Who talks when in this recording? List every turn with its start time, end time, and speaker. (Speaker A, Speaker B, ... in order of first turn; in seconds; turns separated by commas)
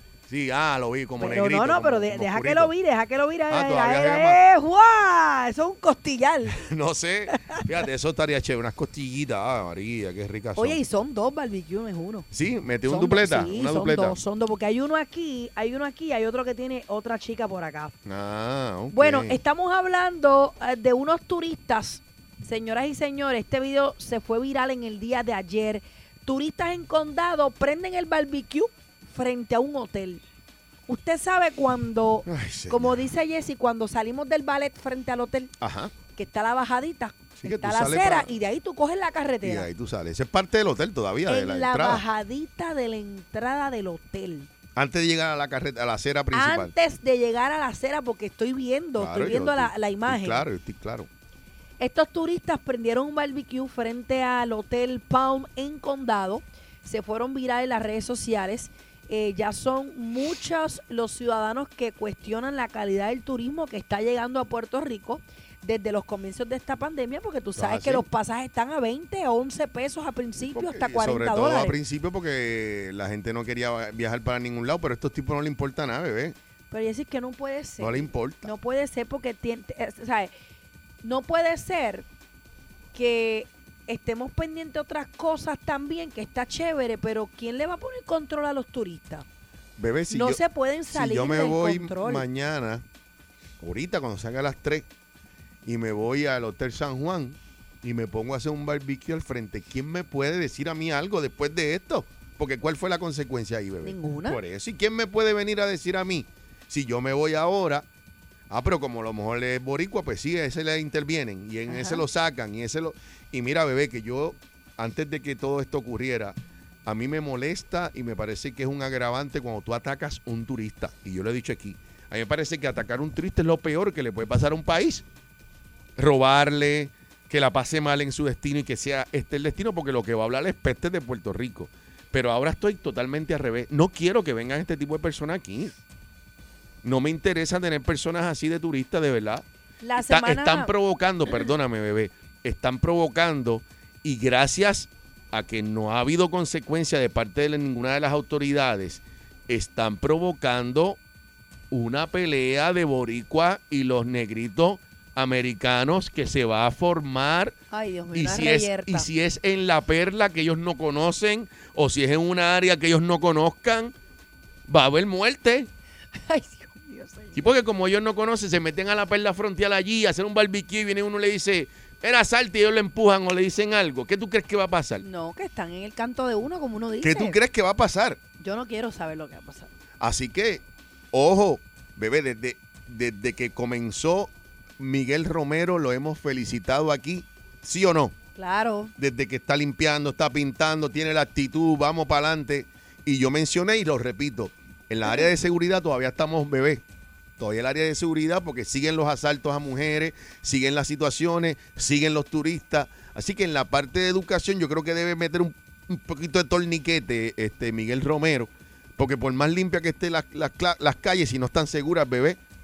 Speaker A: 0.3-2.7, Speaker B: 1.2-6.6, Speaker A: 3.5-4.4, Speaker A: 6.5-10.8, Speaker B: 10.6-12.3, Speaker A: 12.3-14.2, Speaker B: 12.8-17.9, Speaker A: 18.1-19.4, Speaker B: 18.9-30.2, Speaker B: 30.9-35.5, Speaker A: 32.2-33.0, Speaker A: 35.6-35.9, Speaker B: 36.1-39.7, Speaker A: 37.4-38.3, Speaker A: 39.4-42.0, Speaker B: 41.3-44.5, Speaker A: 44.7-46.7, Speaker B: 46.3-50.5, Speaker A: 49.0-51.1, Speaker B: 51.8-71.8, Speaker A: 67.5-68.0, Speaker A: 70.4-76.3, Speaker B: 76.7-80.3, Speaker A: 77.8-78.5, Speaker B: 81.0-82.0, Speaker B: 82.9-89.2, Speaker A: 89.8-92.8, Speaker B: 90.1-92.2, Speaker A: 93.6-94.9, Speaker A: 95.6-107.8, Speaker B: 103.8-104.4, Speaker A: 108.5-125.0, Speaker B: 111.7-112.0, Speaker A: 126.0-135.8, Speaker A: 136.8-139.4, Speaker B: 139.8-140.7, Speaker A: 140.0-151.0, Speaker A: 151.7-157.6, Speaker B: 157.7-159.1, Speaker A: 158.1-163.9, Speaker A: 164.7-165.7, Speaker B: 166.3-167.5, Speaker A: 167.3-175.0, Speaker B: 175.0-177.4, Speaker A: 177.0-178.2, Speaker B: 178.4-179.7, Speaker A: 180.0-188.1, Speaker B: 188.3-188.9, Speaker A: 189.0-196.8, Speaker A: 197.4-212.4